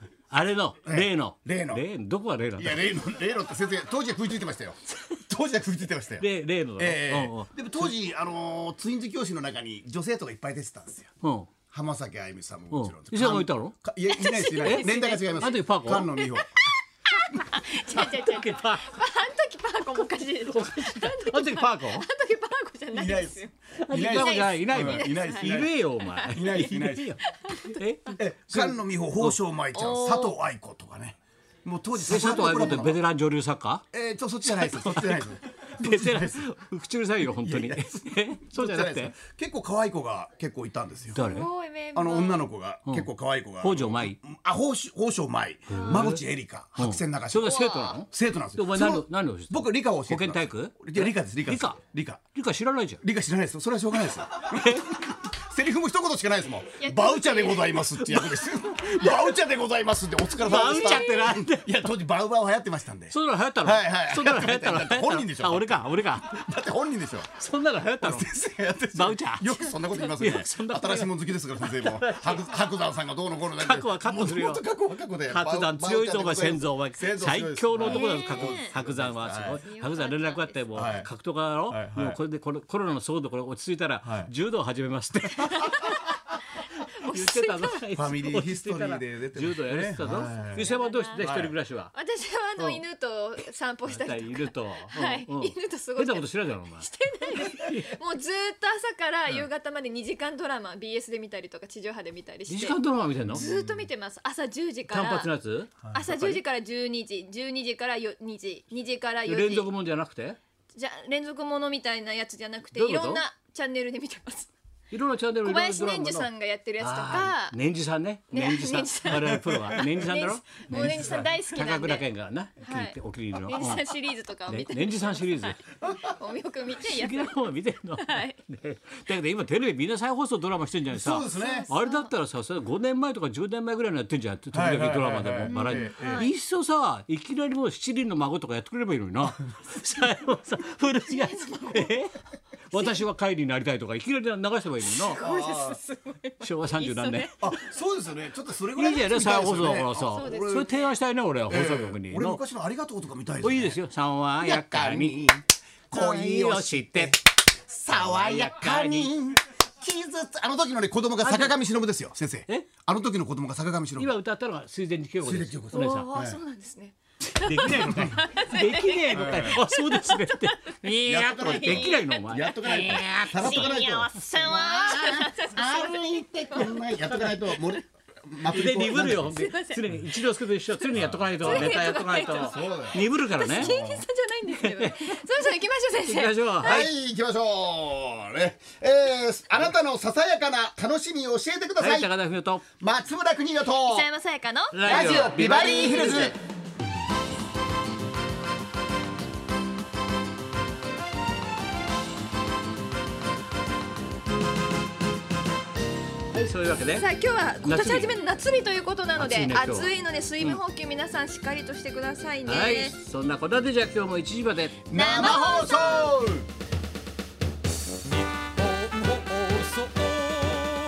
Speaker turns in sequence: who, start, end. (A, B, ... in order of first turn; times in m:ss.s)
0:00.3-0:02.9 A
0:00.8-0:01.8 B
0:02.6-0:11.1 B
0:06.2-0:07.9 A
0:11.2-0:11.5 A
0:11.7-0:16.5 B
0:12.7-0:13.8 A
0:14.1-0:16.5 C
0:14.6-0:16.1 A
0:17.1-0:27.8 C
0:17.9-0:19.0 A
0:20.5-0:22.1 A
0:22.9-0:25.8 B
0:23.8-0:29.4 A
0:26.3-0:27.1 B
0:28.1-0:33.0 B
0:29.7-0:30.4 C
0:32.0-0:33.8 A
0:33.9-0:36.5 B
0:34.4-0:39.2 A
0:37.2-0:41.3 B
0:41.1-0:41.5 A
0:41.2-0:42.5 C
0:41.9-0:52.2 B
0:43.6-0:44.2 A
0:45.7-0:46.2 A
0:45.7-0:46.1 C
0:46.8-0:51.8 A
0:47.4-0:48.0 C
0:52.3-0:53.0 A
0:53.0-1:07.3 B
0:54.5-0:55.2 A
0:56.8-0:57.9 C
0:58.0-0:59.1 A
1:00.3-1:01.8 A
1:00.4-1:01.3 C
1:03.1-1:06.4 A
1:07.3-1:08.3 A
1:08.0-1:19.6 B
1:08.9-1:12.6 A
1:13.5-1:14.6 A
1:15.2-1:25.8 A
1:17.8-1:18.8 C
1:19.4-1:20.9 C
1:20.7-1:21.1 B
1:21.7-1:22.2 B
1:24.0-1:24.3 B
1:25.4-1:26.0 C
1:27.0-1:27.8 C
1:27.0-1:31.9 A
1:27.9-1:31.5 B
1:30.1-1:31.3 C
1:31.9-1:45.3 C
1:33.9-1:37.9 A
1:42.5-1:43.4 A
1:43.2-1:43.9 B
1:44.9-1:46.4 A
1:45.9-1:49.7 C
1:49.2-1:50.4 A
1:50.7-1:54.5 C
1:52.7-1:53.2 A
1:54.9-2:03.8 A
1:55.4-1:57.6 C
1:58.3-2:02.1 C
1:59.5-1:59.8 B
2:00.7-2:01.2 B
2:02.6-2:08.4 C
2:04.5-2:05.6 A
2:05.8-2:06.0 B
2:06.8-2:22.2 A
2:10.9-2:11.7 B
2:11.3-2:12.1 C
2:14.5-2:16.3 B
2:15.4-2:16.3 C
2:21.1-2:21.9 C
2:22.7-2:25.2 A
2:24.9-2:27.3 C
2:25.2-2:25.8 B
2:26.4-2:27.5 A
2:27.4-2:30.7 B
2:28.7-2:32.4 A
2:30.1-2:30.9 C
2:31.5-2:33.8 B
2:33.4-2:35.3 A
2:34.4-2:44.1 B
2:35.9-2:37.2 A
2:37.9-2:39.1 A
2:41.2-2:41.6 A
2:44.0-2:46.1 A
2:45.2-2:46.4 B
2:45.7-2:56.8 C
2:47.3-2:53.8 A
2:47.6-2:48.2 B
2:49.1-2:49.6 B
2:51.0-2:59.4 B
2:54.4-2:55.1 A
2:58.5-3:03.7 A
2:59.3-2:59.8 C
3:00.8-3:06.9 C
3:00.9-3:04.0 B
3:04.5-3:05.2 A
3:06.0-3:06.9 A
3:06.6-3:12.1 B
3:11.8-3:12.6 A
3:12.8-3:14.1 B
3:13.8-3:16.3 C
3:14.7-3:16.3 A
3:14.8-3:16.4 B
3:26.3-3:27.1 A
3:26.9-3:33.0 C
3:27.6-3:28.2 A
3:29.2-3:30.6 A
3:32.4-3:35.3 A
3:34.9-3:36.5 B
3:34.9-3:36.1 C
3:38.8-3:39.2 B